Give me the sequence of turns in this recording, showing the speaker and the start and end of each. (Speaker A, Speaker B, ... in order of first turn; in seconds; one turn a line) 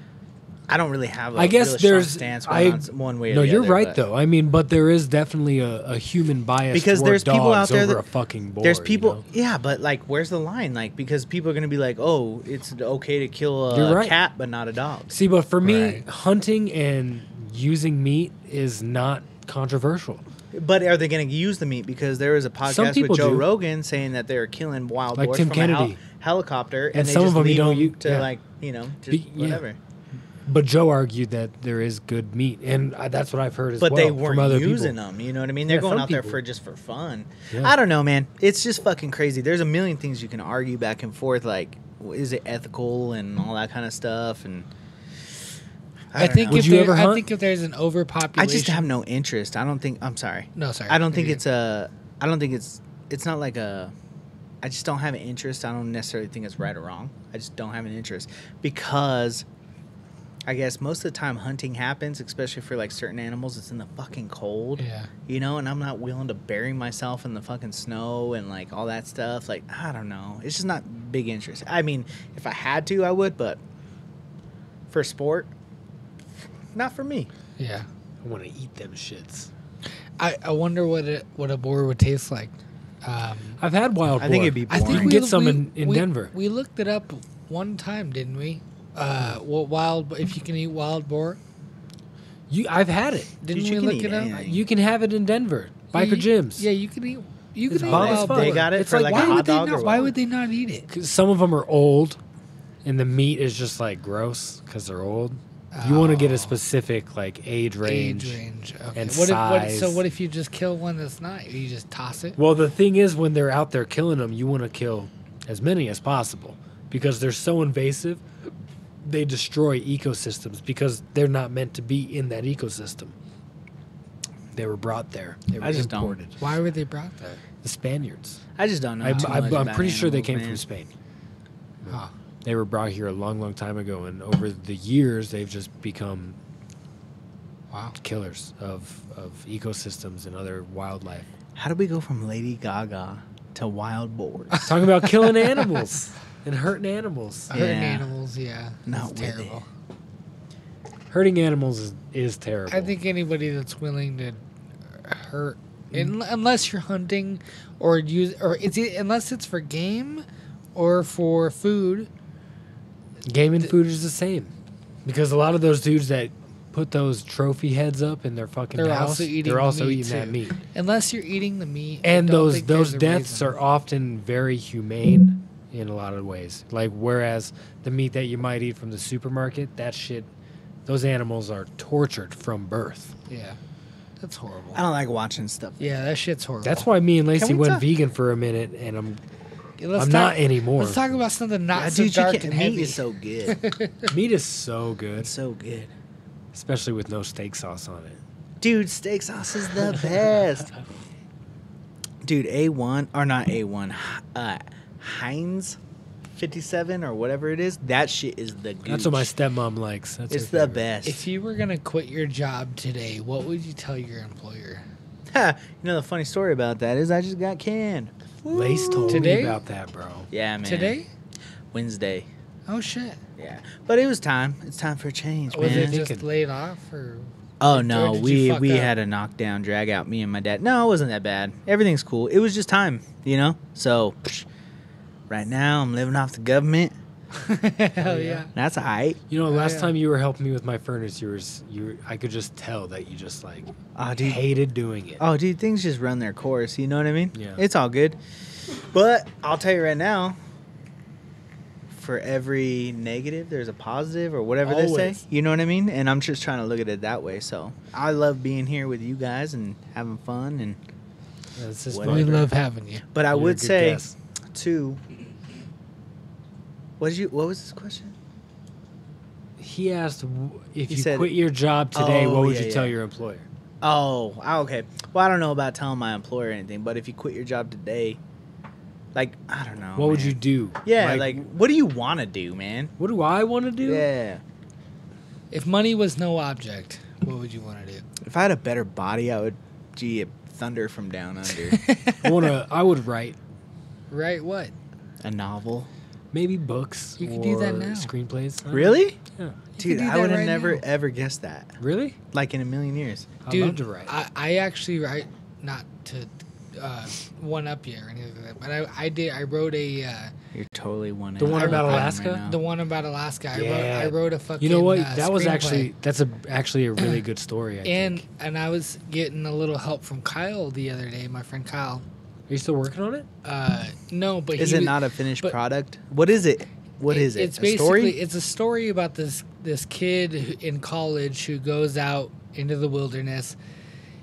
Speaker A: 0.7-4.0
Speaker B: 1.4-9.2
Speaker A: 6.7-8.0
Speaker A: 8.6-15.1
Speaker B: 13.7-14.1
Speaker B: 15.1-20.2
Speaker C: 15.6-16.0
Speaker A: 20.5-29.8
Speaker B: 22.6-23.5
Speaker B: 25.1-26.0
Speaker B: 26.9-28.3
Speaker B: 29.1-29.6
Speaker B: 30.4-35.0
Speaker A: 33.8-44.7
Speaker B: 35.7-36.4
Speaker A: 46.1-46.7
Speaker C: 46.1-48.9
Speaker B: 46.5-47.2
Speaker A: 48.4-53.9
Speaker C: 50.5-51.4
Speaker A: 54.6-59.5
Speaker A: 60.5-73.6
Speaker C: 64.8-65.1
Speaker A: 74.9-75.5
Speaker A: 76.7-77.3
Speaker C: 77.6-77.9
Speaker B: 78.2-79.5
Speaker C: 80.2-83.6
Speaker B: 83.6-86.3
Speaker A: 84.2-85.2
Speaker C: 84.7-91.4
Speaker B: 92.5-93.3
Speaker C: 93.4-94.5
Speaker A: 93.5-94.6
Speaker B: 94.3-96.7
Speaker C: 95.9-100.9
Speaker B: 97.7-99.4
Speaker A: 97.8-100.1
Speaker B: 100.9-102.2
Speaker B: 102.8-108.4
Speaker C: 105.7-106.6
Speaker C: 107.8-112.4
Speaker B: 108.9-110.0
Speaker B: 112.4-118.2
Speaker B: 119.0-123.1
Speaker B: 124.5-126.4
Speaker A: 125.6-126.2
Speaker C: 126.4-127.4
Speaker B: 127.6-128.4
Speaker A: 128.6-130.6
Speaker B: 129.0-130.9
Speaker C: 129.1-129.7
Speaker B: 131.8-136.4
Speaker C: 131.9-132.1
Speaker C: 137.7-137.9
Speaker B: 138.0-141.3
Speaker A: 141.6-144.7
Speaker C: 144.5-145.8
Speaker B: 144.6-147.6
Speaker C: 147.5-149.7
Speaker A: 147.5-148.1
Speaker A: 148.9-149.6
Speaker B: 151.1-152.9
Speaker C: 152.7-154.4
Speaker C: 154.9-160.2
Speaker C: 160.7-162.1
Speaker B: 163.2-164.5
Speaker B: 165.0-170.6
Speaker C: 168.8-173.5
Speaker B: 172.0-180.3
Speaker B: 180.8-183.1
Speaker C: 183.3-183.6
Speaker C: 184.2-184.8
Speaker A: 184.7-185.9
Speaker C: 185.8-186.9
Speaker B: 186.6-189.2
Speaker A: 187.3-187.8
Speaker C: 189.8-194.1
Speaker B: 190.0-191.0
Speaker A: 191.7-193.6
Speaker B: 194.1-195.3
Speaker A: 195.2-195.9
Speaker B: 196.5-198.2
Speaker A: 198.6-200.7
Speaker A: 202.2-205.8
Speaker A: 206.3-209.3
Speaker B: 208.8-210.8
Speaker A: 210.3-211.2
Speaker C: 211.0-214.8
Speaker A: 215.3-219.4
Speaker B: 218.5-220.3
Speaker C: 219.1-219.6
Speaker A: 220.3-221.0
Speaker C: 220.6-221.1
Speaker A: 221.7-222.3
Speaker C: 222.7-223.2
Speaker A: 223.4-226.0
Speaker C: 225.5-228.9
Speaker B: 225.6-226.2
Speaker A: 227.6-234.4
Speaker A: 235.3-236.9
Speaker C: 237.3-238.5
Speaker B: 238.0-238.4
Speaker A: 238.5-239.2
Speaker B: 239.3-245.2
Speaker C: 239.5-239.9
Speaker A: 243.9-244.4
Speaker A: 245.2-250.4
Speaker B: 247.3-247.6
Speaker A: 251.9-260.8
Speaker B: 254.6-255.2
Speaker B: 261.6-262.5
Speaker A: 261.9-262.4
Speaker C: 262.0-263.0
Speaker A: 263.1-265.0
Speaker B: 263.3-264.1
Speaker A: 267.0-268.1
Speaker B: 269.6-273.4
Speaker A: 270.9-271.3
Speaker A: 271.9-272.9
Speaker A: 273.8-278.2
Speaker A: 279.1-282.9
Speaker B: 279.9-281.4
Speaker B: 283.0-284.1
Speaker A: 283.8-284.4
Speaker C: 285.5-288.0
Speaker A: 288.2-291.8
Speaker C: 291.7-292.5
Speaker B: 292.2-293.4
Speaker C: 294.1-294.7
Speaker A: 295.2-295.9
Speaker B: 296.3-299.6
Speaker C: 297.2-298.1
Speaker A: 298.7-299.2
Speaker C: 299.8-300.8
Speaker A: 299.8-301.8
Speaker B: 301.8-302.1
Speaker A: 302.3-303.3
Speaker B: 303.4-304.1
Speaker C: 303.5-310.3
Speaker A: 310.5-312.6
Speaker B: 311.4-312.4
Speaker C: 311.5-315.9
Speaker B: 313.5-318.2
Speaker C: 317.8-322.0
Speaker B: 322.5-323.3
Speaker C: 323.4-325.6
Speaker A: 324.6-328.2
Speaker C: 327.1-333.6